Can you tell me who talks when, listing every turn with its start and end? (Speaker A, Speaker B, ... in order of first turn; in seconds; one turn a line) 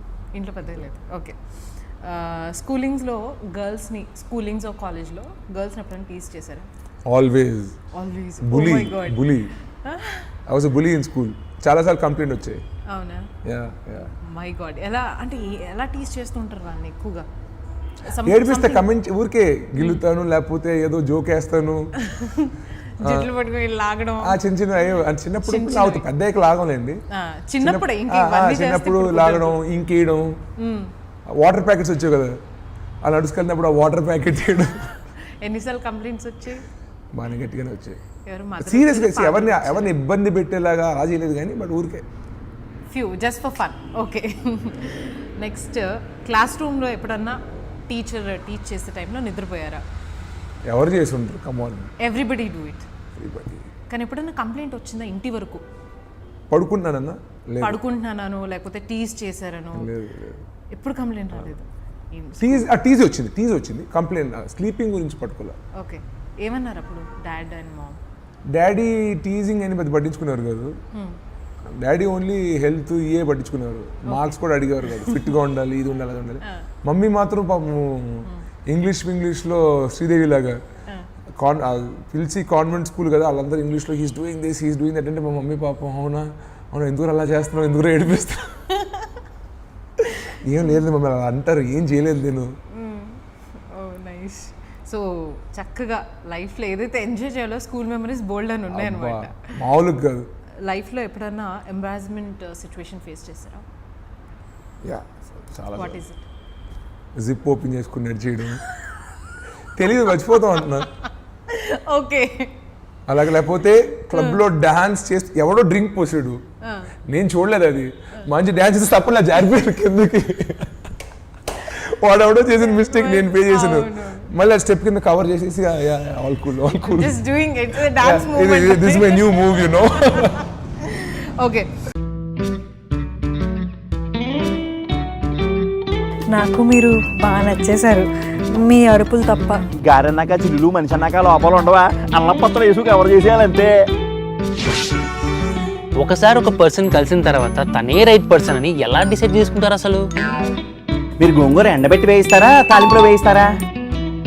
Speaker A: 0.3-6.7
Speaker B: 7.1-7.8
Speaker A: 7.9-10.3
Speaker B: 8.4-9.5
Speaker B: 10.5-12.6
Speaker A: 12.9-13.3
Speaker B: 13.4-14.1
Speaker A: 14.0-17.3
Speaker A: 18.1-18.9
Speaker B: 18.2-21.9
Speaker A: 22.0-24.4
Speaker B: 23.0-23.3
Speaker B: 24.2-27.0
Speaker A: 25.4-26.1
Speaker A: 27.1-29.6
Speaker B: 27.6-30.4
Speaker A: 30.6-30.9
Speaker B: 31.3-32.4
Speaker B: 33.0-35.0
Speaker A: 35.4-36.6
Speaker B: 37.1-38.0
Speaker A: 38.2-39.9
Speaker B: 38.6-42.0
Speaker A: 42.9-49.8
Speaker B: 50.7-51.9
Speaker A: 52.0-52.9
Speaker B: 53.2-53.7
Speaker A: 53.9-55.6
Speaker B: 56.5-57.8
Speaker A: 57.6-59.9
Speaker B: 59.7-60.4
Speaker A: 60.7-62.7
Speaker B: 62.4-65.6
Speaker A: 65.8-68.0
Speaker B: 68.5-70.8
Speaker A: 70.9-71.2
Speaker B: 71.7-80.6
Speaker A: 74.1-75.3
Speaker B: 81.4-88.7
Speaker B: 90.2-92.5
Speaker A: 92.7-99.5
Speaker B: 98.7-100.3
Speaker A: 100.6-103.7
Speaker B: 104.8-106.0
Speaker A: 105.8-106.2
Speaker B: 107.2-108.6
Speaker B: 109.8-110.9
Speaker A: 110.1-110.9
Speaker A: 111.5-112.6
Speaker B: 113.1-116.4
Speaker A: 114.1-114.4
Speaker A: 116.6-116.9
Speaker B: 117.1-120.8
Speaker B: 121.6-127.2
Speaker A: 122.5-124.3
Speaker A: 126.9-131.7
Speaker B: 127.9-130.4
Speaker C: 136.3-139.7
Speaker D: 139.8-143.7
Speaker E: 146.0-150.0
Speaker D: 151.2-153.5